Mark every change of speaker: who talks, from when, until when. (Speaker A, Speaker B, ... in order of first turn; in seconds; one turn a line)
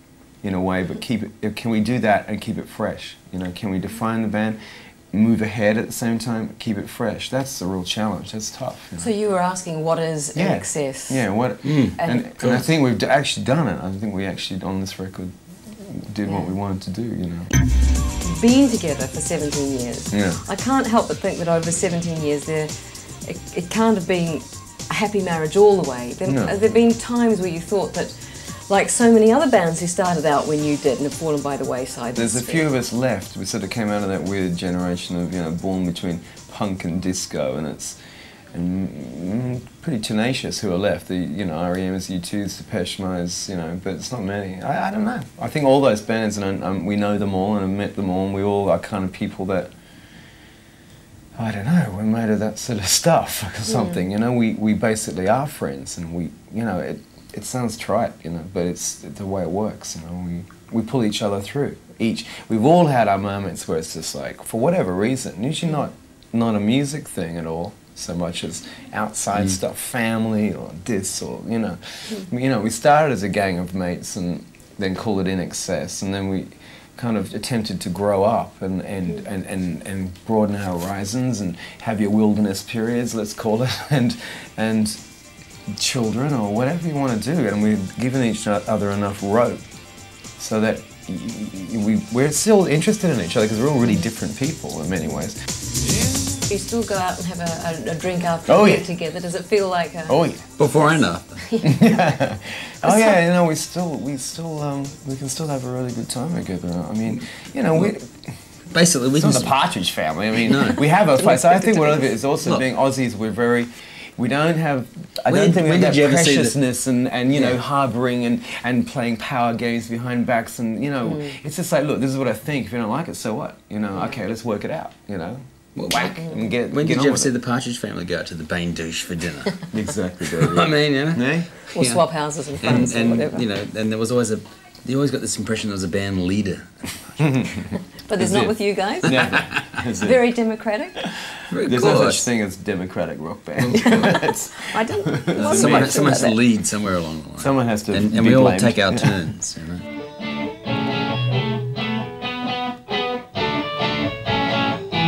Speaker A: 0.4-9.1
Speaker B: 9.0-11.4
Speaker A: 10.3-17.5
Speaker C: 11.6-12.7
Speaker B: 11.9-12.3
Speaker B: 16.2-16.5
Speaker B: 18.2-32.7
Speaker A: 20.1-20.4
Speaker A: 26.2-26.6
Speaker A: 32.1-38.0
Speaker A: 38.5-49.7
Speaker A: 51.3-85.0
Speaker B: 53.7-54.0
Speaker A: 85.7-89.6
Speaker A: 90.4-95.4
Speaker B: 96.4-100.2
Speaker A: 98.5-98.9
Speaker A: 100.1-100.4
Speaker C: 100.6-101.4
Speaker B: 101.5-102.0
Speaker A: 101.6-108.3
Speaker B: 102.8-103.2
Speaker C: 108.7-109.5
Speaker A: 109.1-127.3
Speaker C: 110.4-110.9
Speaker C: 115.3-116.5
Speaker B: 121.0-121.4
Speaker B: 123.9-124.2
Speaker C: 125.8-129.7
Speaker B: 126.0-126.5
Speaker A: 129.7-131.5
Speaker C: 130.3-137.2
Speaker B: 131.7-133.5
Speaker A: 132.7-133.0
Speaker B: 138.1-139.4
Speaker C: 138.2-139.3
Speaker A: 139.0-140.3
Speaker B: 140.0-141.1
Speaker A: 141.5-146.2
Speaker C: 141.5-142.3
Speaker C: 143.6-144.2
Speaker B: 143.7-146.4
Speaker C: 145.3-149.8
Speaker A: 147.4-149.2